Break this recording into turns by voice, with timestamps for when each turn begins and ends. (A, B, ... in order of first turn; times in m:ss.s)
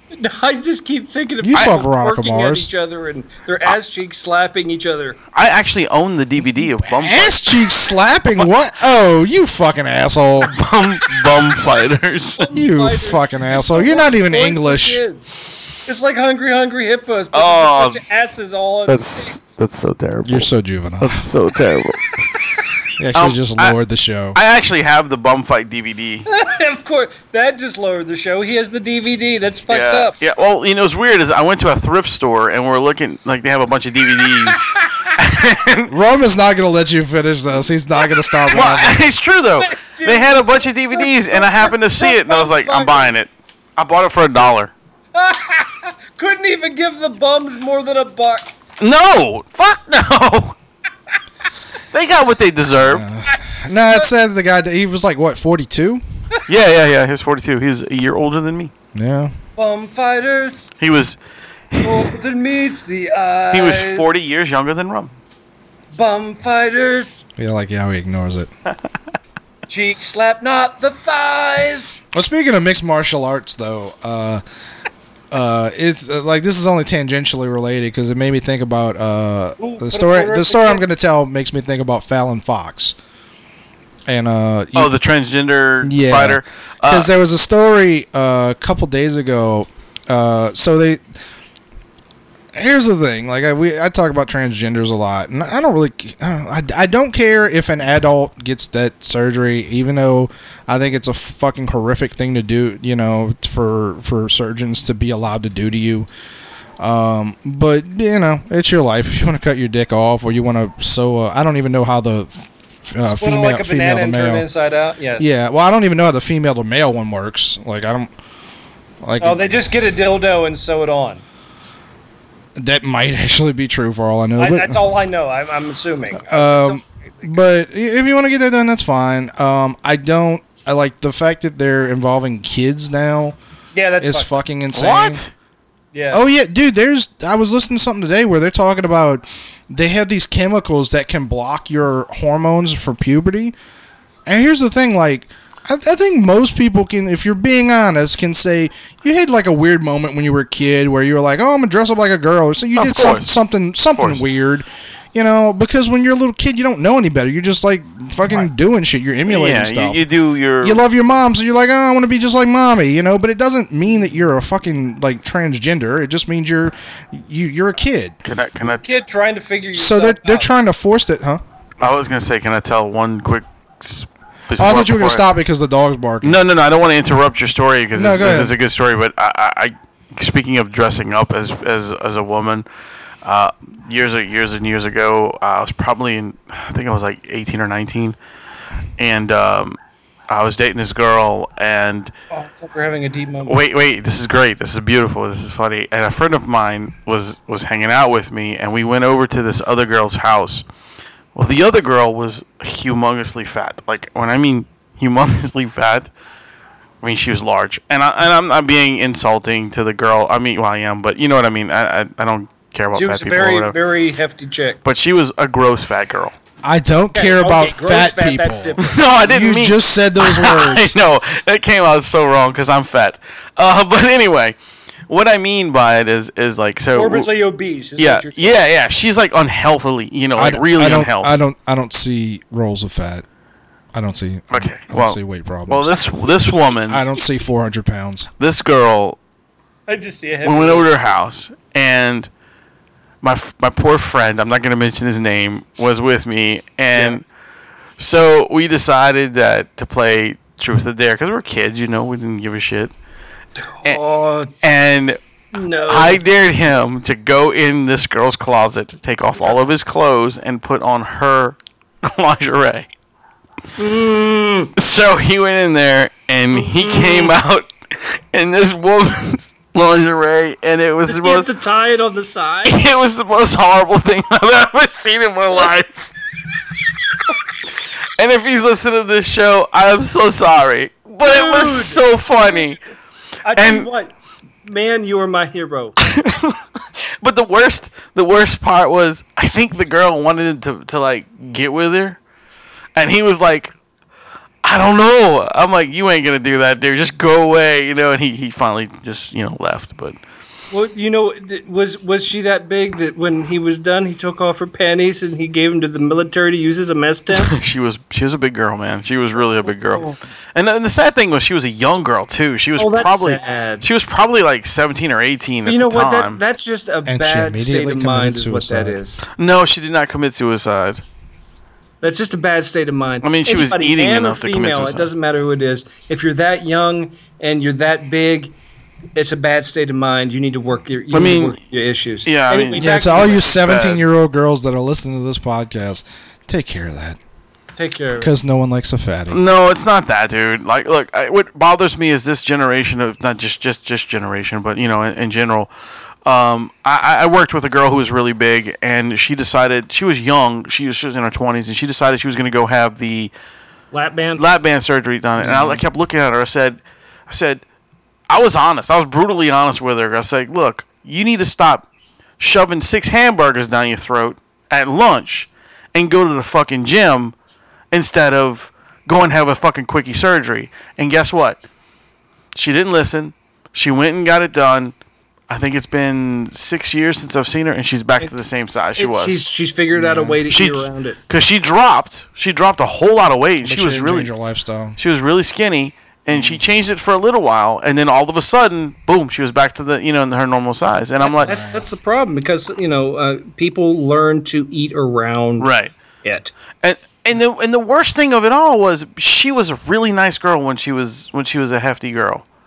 0:00.1-0:05.2 A
0:01.4-0:02.7 B
0:05.3-0:07.5 C
0:06.8-0:10.5 B
0:10.4-0:12.5 C
0:12.4-0:15.3 A
0:12.5-0:15.0 B
0:15.8-0:19.6 A
0:17.3-0:18.0 C
0:18.9-0:20.5 C
0:20.2-0:21.3 B
0:21.0-0:22.1 C
0:23.0-0:24.4 B
0:23.2-0:23.8 C
0:24.4-0:26.3 C
0:26.3-0:30.1 A
0:29.7-0:35.9 C
0:34.5-0:34.8 A
0:35.9-0:39.0 B
0:38.5-0:44.7 C
0:39.6-0:43.1 A
0:45.2-0:48.5 A
0:48.8-0:50.6 C
0:51.9-0:53.1 C
0:52.8-0:56.0 B
0:56.5-0:58.7 C
0:58.9-0:59.3 B
0:59.6-1:00.7 A
1:00.8-1:01.2 C
1:01.7-1:02.1 C
1:01.8-1:04.1 A
1:03.5-1:05.1 C
1:05.9-1:07.2 A
1:07.4-1:08.5 B
1:09.7-1:12.0 A
1:12.1-1:14.4 B
1:15.3-1:23.0 B
1:19.6-1:20.8 A
1:24.1-1:24.9 B
1:24.8-1:27.1 C
1:25.8-1:31.0 B
1:32.6-1:46.1 B
1:46.8-1:54.5 B
1:53.1-1:55.2 A
1:55.2-1:58.1 B
1:59.0-1:59.6 B
1:59.2-2:01.2 A
2:02.6-2:04.8 B
2:04.4-2:07.3 A
2:06.2-2:13.4 B
2:13.7-2:14.3 A
2:14.0-2:15.2 B
2:14.7-2:15.3 C
2:15.9-2:16.2 A
2:16.1-2:23.6 B
2:24.3-2:40.0 B
2:32.8-2:33.3 C
2:34.0-2:34.2 C
2:39.3-2:40.8 C
2:40.6-2:48.2 B
2:48.2-2:48.8 C
2:48.8-2:50.5 A
2:49.7-2:51.4 B
2:51.8-2:55.3 C
2:54.6-2:56.4 B
2:56.2-3:02.7 C
2:57.9-2:58.6 B
3:03.2-3:08.2 C
3:09.0-3:09.8 C
3:10.3-3:12.1 C
3:12.3-3:13.6 A
3:13.5-3:20.6 C
3:21.4-3:26.1 C
3:27.0-3:33.8 C
3:32.9-3:34.8 A
3:34.8-3:36.4 C
3:36.6-3:41.0 B
3:37.1-3:39.0 A
3:38.8-3:44.6 C
3:45.1-3:47.3 C
3:46.9-3:48.6 A
3:48.0-3:51.4 C
3:50.4-3:53.2 B
3:53.9-3:56.0 B
3:54.5-3:57.0 C
3:56.9-3:58.3 B
3:58.4-3:59.2 C
3:59.9-4:00.9 A
4:00.4-4:02.3 C
4:03.2-4:07.2 C
4:06.9-4:07.2 A
4:08.0-4:12.9 C
4:13.6-4:14.5 A
4:14.6-4:15.2 C
4:15.5-4:16.2 A
4:15.9-4:22.9 C
4:23.8-4:24.7 A
4:24.8-4:31.5 C
4:26.5-4:27.4 A
4:31.1-4:32.8 A
4:32.6-4:36.1 C
4:38.2-4:42.8 C
4:41.2-4:42.7 A
4:43.4-4:44.1 A
4:43.6-4:43.9 C
4:44.6-4:46.0 A
4:46.0-4:46.6 C
4:47.2-4:52.2 C
4:53.0-4:53.7 C
4:54.6-5:00.2 C
5:00.7-5:07.5 A
5:07.3-5:16.4 C
5:09.7-5:10.2 A
5:12.8-5:13.9 A
5:15.7-5:19.2 A
5:17.1-5:19.0 B
5:19.4-5:21.0 C
5:22.0-5:28.5 A
5:23.2-5:25.1 C
5:29.2-5:33.5 A
5:31.1-5:31.6 C
5:32.2-5:34.0 C
5:32.7-5:37.2 B
5:37.8-5:38.3 A
5:38.2-5:39.4 B
5:39.3-5:45.7 C
5:46.3-5:53.3 C
5:53.9-5:54.4 A
5:54.4-5:57.6 C
5:55.4-5:55.8 B
5:58.3-6:01.9 C
6:02.4-6:07.3 C
6:07.9-6:11.6 C
6:12.6-6:14.9 C
6:15.5-6:19.5 C
6:19.0-6:21.2 A
6:19.9-6:20.4 B
6:20.5-6:24.3 C
6:23.6-6:25.0 B
6:25.0-6:31.5 C
6:26.3-6:26.6 B
6:31.2-6:35.7 A
6:31.4-6:31.9 B
6:35.6-6:35.9 C
6:36.2-6:36.5 A
6:36.8-6:42.4 C